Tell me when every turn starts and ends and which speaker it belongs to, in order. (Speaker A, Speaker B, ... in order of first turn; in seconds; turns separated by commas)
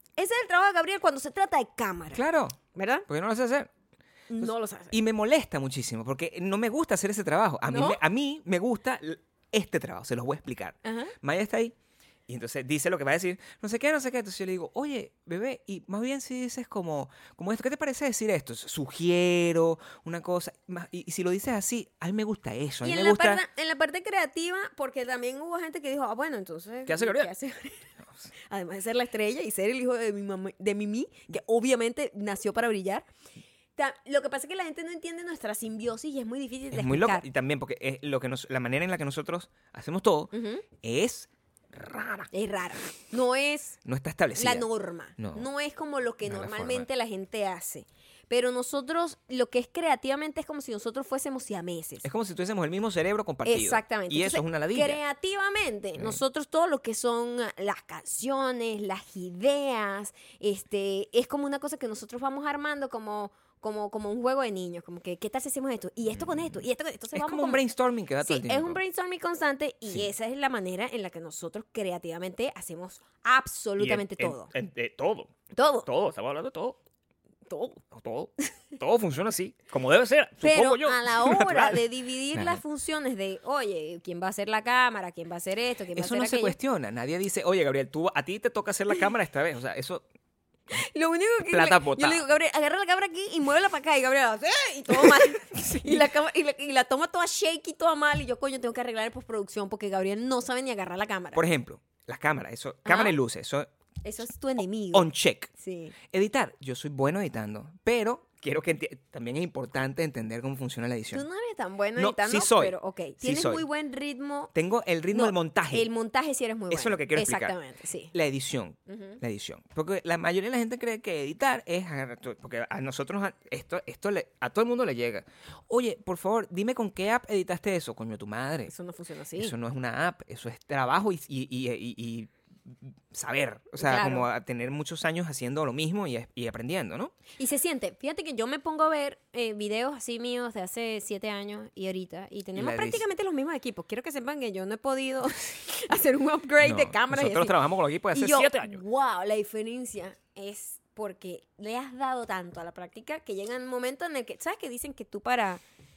Speaker A: 0.2-2.2, Speaker B: 2.1-3.7, Speaker A: 2.7-3.1, Speaker A: 4.3-4.9, Speaker B: 4.4-11.8, Speaker A: 7.7-8.0, Speaker A: 10.8-11.1, Speaker B: 12.3-23.4, Speaker A: 22.8-27.8, Speaker B: 26.9-27.3, Speaker B: 28.0-28.3, Speaker A: 28.4-33.1, Speaker A: 33.8-37.3, Speaker B: 36.7-42.3, Speaker A: 40.3-40.7, Speaker A: 42.3-43.8, Speaker B: 43.9-44.7, Speaker A: 44.4-52.0, Speaker B: 45.2-45.5, Speaker B: 46.2-46.9, Speaker B: 52.0-55.0, Speaker A: 53.5-67.6, Speaker B: 66.2-66.6, Speaker B: 67.1-68.8, Speaker A: 68.2-74.5, Speaker B: 73.8-75.3, Speaker A: 75.5-75.9, Speaker B: 75.8-76.8, Speaker A: 77.5-77.8, Speaker B: 77.9-82.6, Speaker A: 80.4-86.6, Speaker B: 86.0-90.0, Speaker A: 90.7-101.4, Speaker B: 91.5-92.2, Speaker B: 94.9-96.1, Speaker B: 101.3-103.7, Speaker A: 102.8-103.2, Speaker A: 104.0-106.0, Speaker B: 104.9-105.5, Speaker B: 106.0-111.3, Speaker A: 111.1-114.5, Speaker B: 112.0-113.7, Speaker B: 114.5-115.9, Speaker A: 115.1-118.1, Speaker B: 116.7-117.6, Speaker B: 118.1-128.7, Speaker A: 118.9-119.2, Speaker A: 128.7-129.5, Speaker B: 129.4-137.1, Speaker A: 133.8-134.3, Speaker A: 137.4-147.6, Speaker B: 142.6-143.0, Speaker B: 146.6-148.8, Speaker A: 148.1-155.6